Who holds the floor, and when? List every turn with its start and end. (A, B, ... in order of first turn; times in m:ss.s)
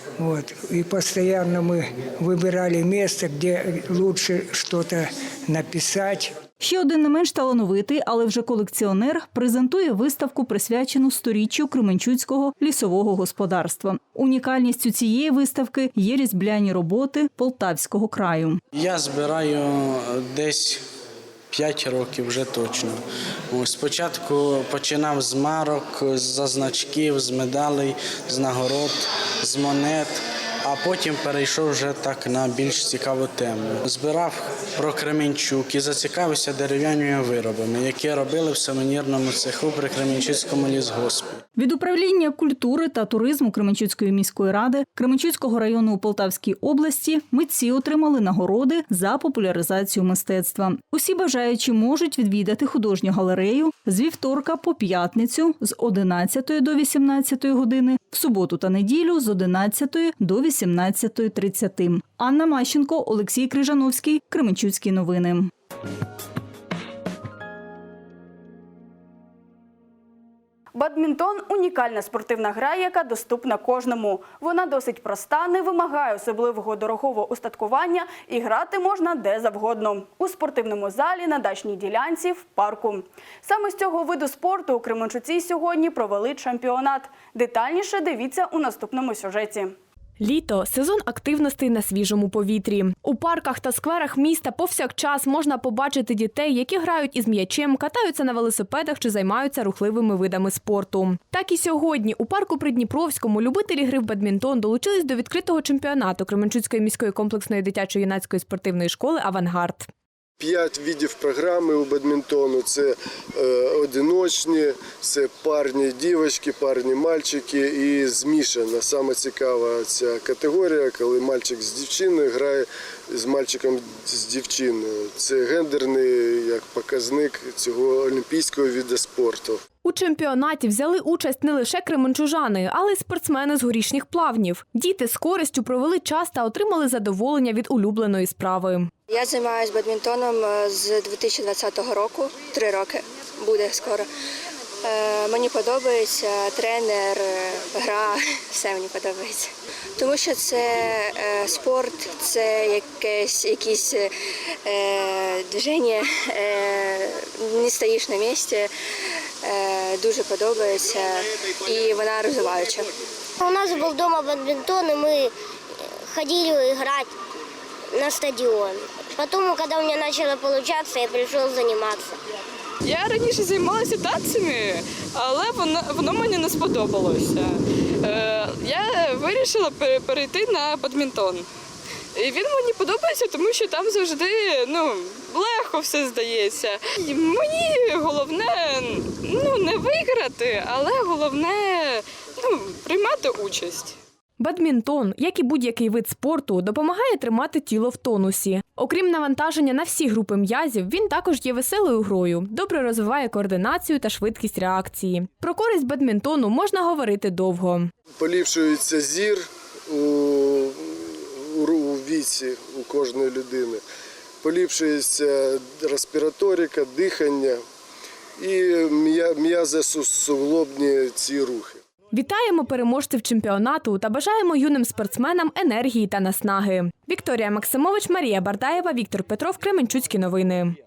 0:00.2-0:06.4 A
0:06.6-0:18.6 B
0:18.7-0:20.9 C
0:21.5-0:41.4 C
0:41.6-1:05.5 B
1:10.7-1:29.7 D
1:30.2-1:49.9 E
1:50.4-2:09.6 F
2:09.8-2:18.9 E
2:19.1-2:24.1 G
2:24.8-2:34.1 G
2:34.6-2:38.7 G
2:39.4-2:42.9 G
2:43.4-2:45.3 H
2:46.1-2:47.1 H
2:47.9-2:52.2 H
2:52.8-3:01.5 I
3:02.2-3:14.0 I
3:14.4-3:27.9 E
3:28.2-3:33.8 F
3:34.4-3:37.6 F
3:38.4-3:41.8 F
3:42.1-3:50.7 E